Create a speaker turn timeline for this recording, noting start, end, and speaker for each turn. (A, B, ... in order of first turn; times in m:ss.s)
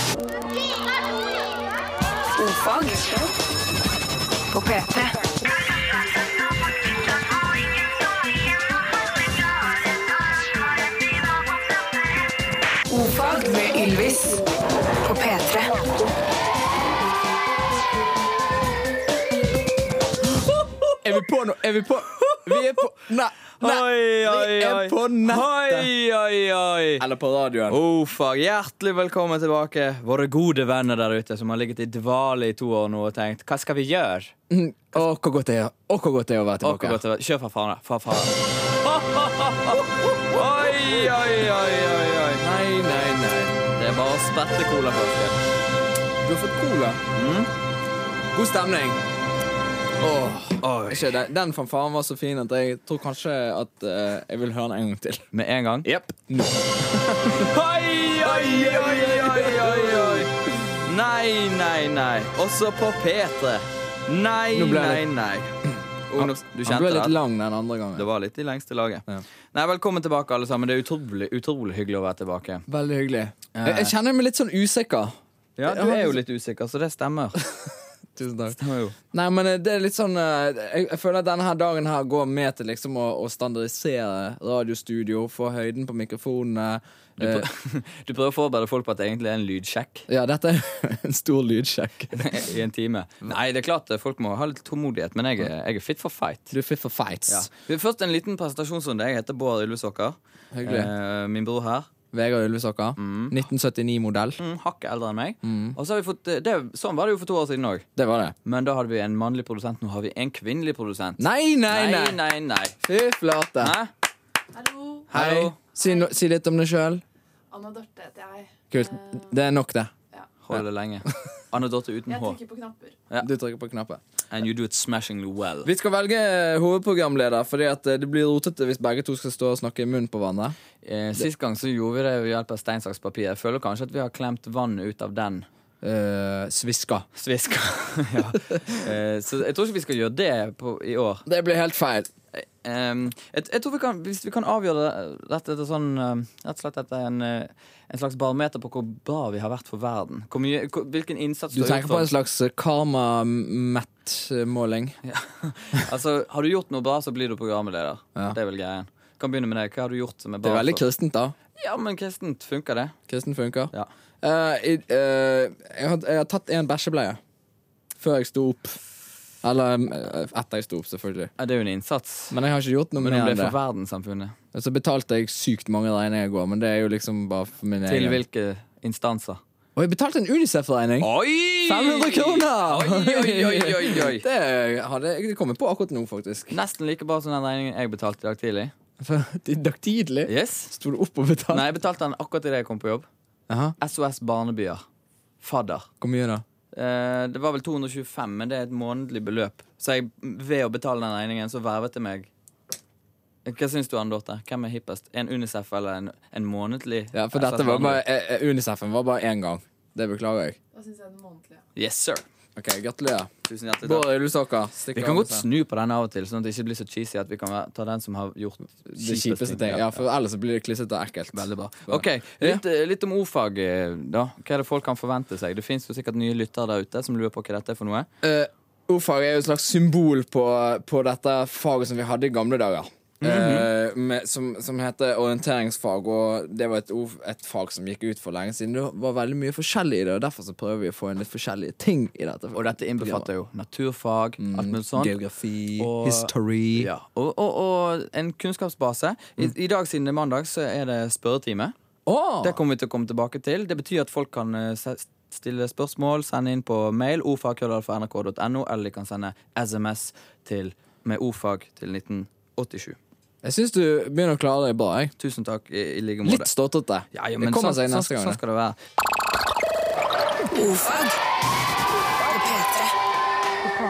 0:02.3-0:03.3 A
0:04.5-0:05.2 A
0:12.9-0:14.5 A
0:15.0-0:15.8 A
0:21.0-0:25.9 B
0:23.6-0:27.0 C
0:27.0-0:27.8 B
0:27.7-0:34.3 C
0:34.5-0:37.0 B
0:36.6-0:42.4 C
0:39.7-0:41.0 B
0:42.4-0:43.6 B
0:43.7-0:45.4 C
0:46.2-0:47.0 B
0:47.1-0:47.5 C
0:48.3-0:49.0 B
0:50.0-0:55.3 B
0:50.6-0:51.1 C
0:55.3-0:55.9 C
0:55.8-0:57.5 B
0:57.2-1:05.6 C
0:58.2-1:00.7 B
1:04.5-1:05.1 B
1:06.1-1:07.2 C
1:06.2-1:08.1 B
1:08.0-1:12.6 C
1:12.7-1:16.2 B
1:13.5-1:13.9 C
1:15.6-1:17.4 C
1:17.4-1:18.6 B
1:18.5-1:19.0 C
1:19.1-1:27.5 B
1:27.2-1:30.1 C
1:30.1-1:32.4 B
1:32.1-1:36.5 C
1:36.5-1:37.5 B
1:37.3-1:41.9 C
1:40.5-1:40.9 B
1:42.1-1:44.4 B
1:43.0-1:43.4 C
1:44.4-1:47.8 C
1:45.4-1:45.8 B
1:48.0-1:48.3 B
1:48.4-1:52.8 C
1:51.2-1:52.2 B
1:52.8-1:53.8 B
1:53.6-1:53.9 C
1:54.6-1:55.0 D
1:55.1-1:55.6 C
1:55.1-1:57.0 B
1:57.5-1:58.5 D
1:58.7-1:59.9 B
2:00.4-2:02.4 C
2:02.2-2:02.9 D
2:03.2-2:04.0 B
2:04.3-2:05.7 C
2:05.6-2:10.6 B
2:10.8-2:15.5 C
2:15.8-2:17.1 B
2:17.1-2:21.2 C
2:21.2-2:22.1 B
2:22.3-2:32.1 C
2:31.5-2:35.0 B
2:35.0-2:40.8 C
2:40.4-2:41.3 B
2:41.6-2:42.9 C
2:43.1-2:47.2 B
2:48.0-2:48.8 B
2:49.4-2:51.3 B
2:51.4-2:52.4 C
2:52.3-2:53.5 B
2:53.0-2:54.4 C
2:54.5-2:58.2 B
2:57.9-2:59.4 C
2:59.8-3:01.1 B
3:01.0-3:04.2 C
3:01.6-3:06.5 B
3:06.5-3:08.7 C
3:09.0-3:11.6 B
3:10.3-3:10.7 C
3:11.5-3:13.1 C
3:13.5-3:13.8 B
3:13.8-3:14.8 C
3:15.4-3:15.9 C
3:16.0-3:16.4 B
3:16.7-3:22.3 C
3:23.4-3:28.0 C
3:27.1-3:30.6 B
3:30.7-3:31.6 D
3:31.8-3:32.2 C
3:32.6-3:33.3 B
3:33.4-3:34.1 C
3:33.8-3:35.4 B
3:34.9-3:40.0 C
3:38.9-3:42.6 B
3:41.3-3:48.1 C
3:48.2-4:03.3 B
3:53.2-3:53.7 C
4:02.5-4:05.2 C
4:04.4-4:06.9 B
4:05.8-4:11.7 C
4:12.0-4:12.6 B
4:12.4-4:23.0 C
4:23.4-4:25.1 B
4:25.2-4:26.5 C
4:26.2-4:28.4 B
4:27.1-4:28.8 C
4:30.5-4:31.0 A
4:32.3-4:32.9 A